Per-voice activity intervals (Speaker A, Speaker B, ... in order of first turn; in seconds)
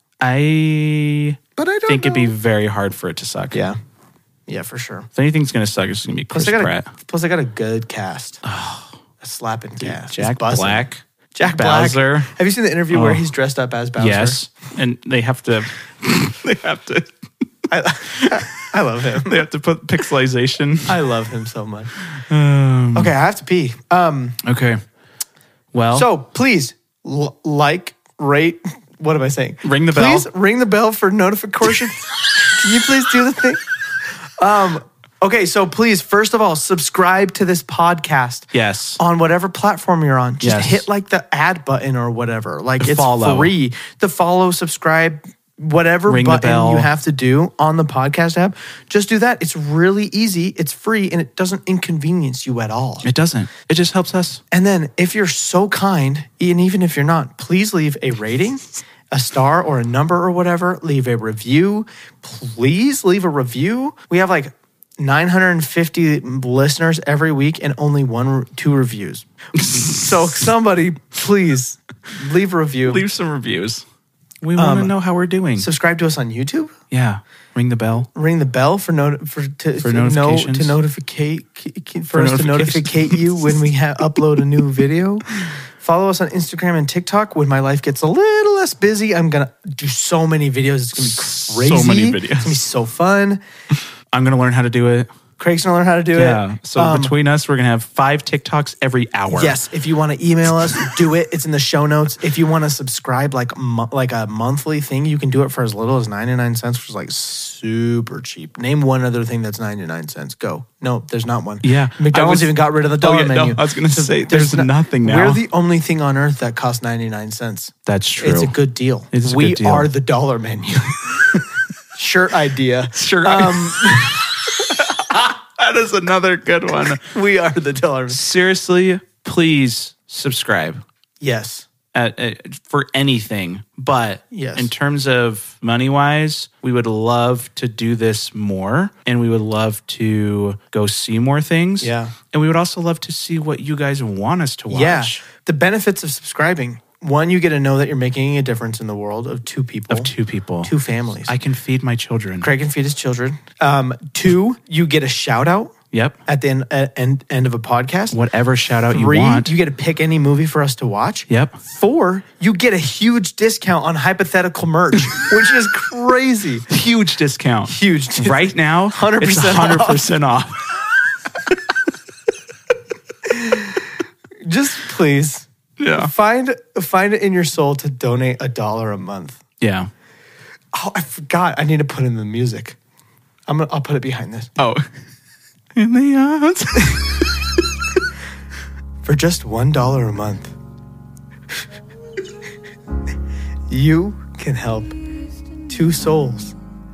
Speaker A: 0.2-3.6, 5.1-6.9, 8.4-8.9, 9.8-12.3, 12.9-13.2, 14.0-17.1, 18.1-18.7, 19.2-21.0, 22.0-23.1, 24.4-24.8, 25.7-26.1, 29.6-30.3, 38.5-39.0, 40.4-40.8, 42.8-43.5, 46.1-46.9, 53.0-54.4, 69.5-70.4, 72.8-73.8, 74.4-75.7, 76.9-78.1, 79.8-80.8, 82.1-83.6, 91.0-92.6, 94.1-95.1, 96.1-99.6, 111.6-115.4, 117.8-118.5, 119.1-119.9, 122.9-124.2, 124.8-127.0, 128.1-130.8, 131.9-145.2, 149.9-150.7, 151.2-152.5, 155.9-156.2, 158.1-159.5, 161.3-161.6, 166.7-170.7, 175.8-176.1, 179.6-179.9, 184.6-184.9, 185.7-187.3
Speaker B: 1.6-2.3, 3.5-3.8, 4.5-5.1, 6.3-8.4, 9.2-14.4, 17.7-19.4, 20.9-21.9, 22.9-24.4, 25.9-33.6, 34.3-53.1, 54.5-73.0, 74.5-74.9, 75.6-76.7, 78.1-93.4, 95.4-97.1, 99.3-121.4, 121.9-125.2, 126.9-128.2, 131.2-131.7, 134.3-134.7, 141.8-142.1, 144.7-150.1, 150.6-151.3, 152.4-155.7, 156.2-158.2, 158.9-166.7, 167.7-170.1, 173.2-173.9, 174.4-179.4, 180.7-182.8, 183.5-184.5, 189.0-190.5, 193.7-194.9, 195.7-196.6